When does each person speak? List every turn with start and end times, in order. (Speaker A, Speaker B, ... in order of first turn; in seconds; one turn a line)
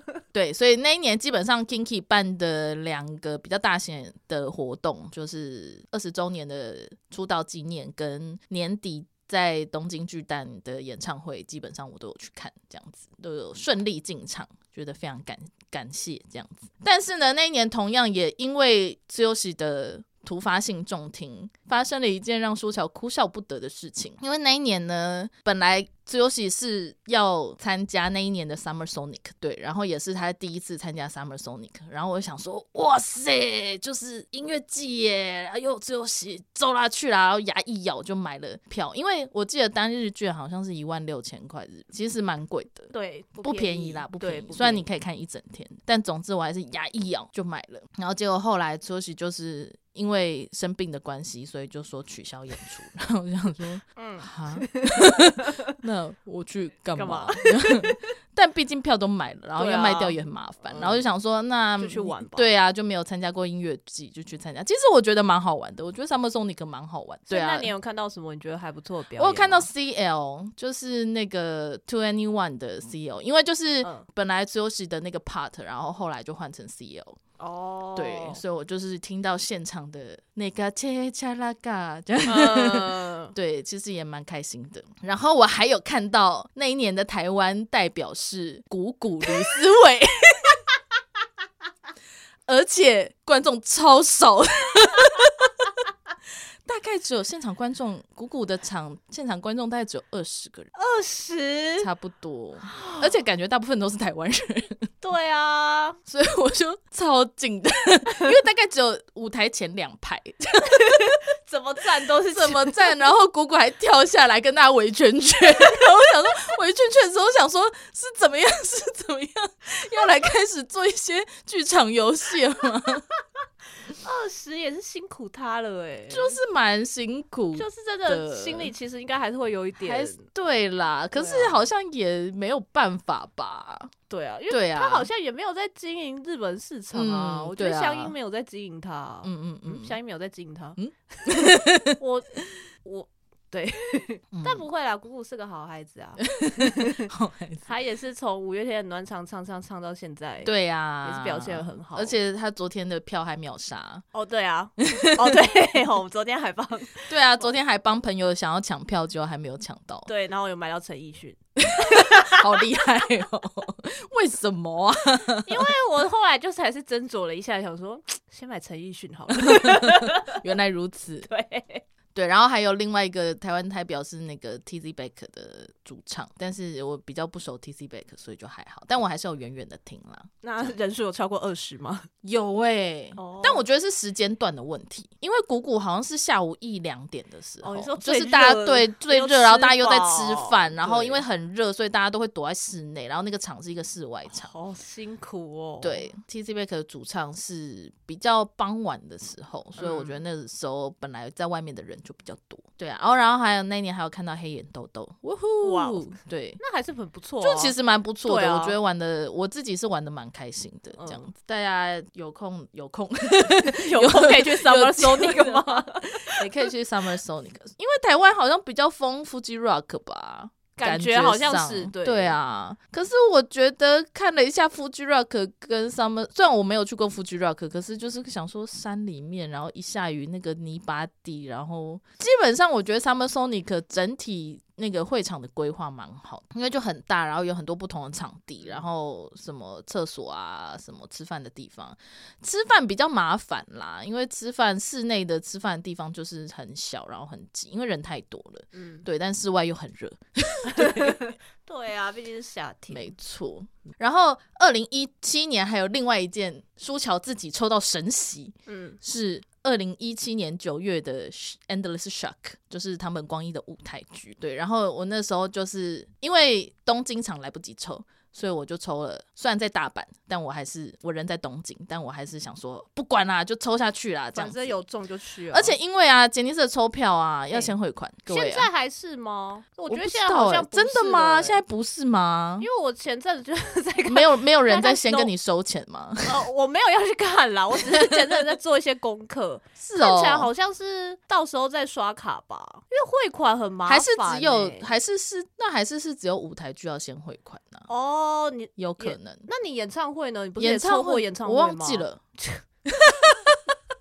Speaker A: 0.3-67.7
Speaker B: 42.9-44.9
Speaker B: 54.0-55.6
Speaker B: 57.0-58.0
Speaker B: 59.6-61.0
Speaker B: 61.8-62.5
Speaker B: 67.3-69.7
Speaker A: 69.2-77.2
Speaker B: 77.4-78.4
Speaker A: 78.0-90.6
Speaker B: 82.3-83.3
Speaker A: 92.5-95.8
Speaker A: 96.7-100.7
Speaker B: 100.8-101.9
Speaker A: 101.8-104.9
Speaker B: 102.7-103.1
Speaker B: 105.0-106.0
Speaker A: 106.1-111.2
Speaker B: 110.7-112.8
Speaker A: 111.9-123.1
Speaker B: 123.9-126.4
Speaker A: 126.1-128.7
Speaker B: 127.5-130.2
Speaker A: 129.8-133.9
Speaker B: 131.2-131.6
Speaker B: 134.1-142.3
Speaker A: 134.5-135.1
Speaker A: 136.9-138.1
Speaker A: 139.2-140.0
Speaker A: 140.8-142.0
Speaker B: 142.8-147.1
Speaker A: 144.3-144.7
Speaker A: 146.2-147.7
Speaker B: 147.7-150.5
Speaker A: 150.4-154.0
Speaker B: 151.0-152.2
Speaker B: 154.1-157.1
Speaker A: 154.8-155.4
Speaker A: 157.1-160.1
Speaker B: 160.1-162.7
Speaker A: 161.6-165.7
Speaker B: 165.4-170.4
Speaker A: 169.3-171.3
Speaker B: 171.3-171.8
Speaker A: 172.2-180.7
Speaker B: 180.4-182.1
Speaker A: 182.2-194.5
Speaker B: 183.2-183.7
Speaker B: 187.6-191.2
Speaker B: 194.3-196.1
Speaker A: 195.8-206.6
Speaker B: 199.8-200.2
Speaker B: 205.6-208.8
Speaker A: 207.4-251.3
Speaker B: 211.0-211.3
Speaker B: 213.5-216.4
Speaker B: 220.8-222.4
Speaker B: 248.8-249.0
Speaker B: 250.7-253.1
Speaker A: 252.9-274.8
Speaker B: 258.7-259.0
Speaker B: 274.4-275.8
Speaker A: 275.5-278.7
Speaker B: 278.3-281.6
Speaker A: 279.9-282.7
Speaker B: 282.6-285.3
Speaker A: 284.1-286.4
Speaker B: 286.3-294.9
Speaker A: 287.9-288.3
Speaker A: 289.8-290.5
Speaker A: 293.9-297.9
Speaker B: 297.9-302.6
Speaker A: 298.8-299.5
Speaker A: 300.6-302.2
Speaker A: 302.9-303.6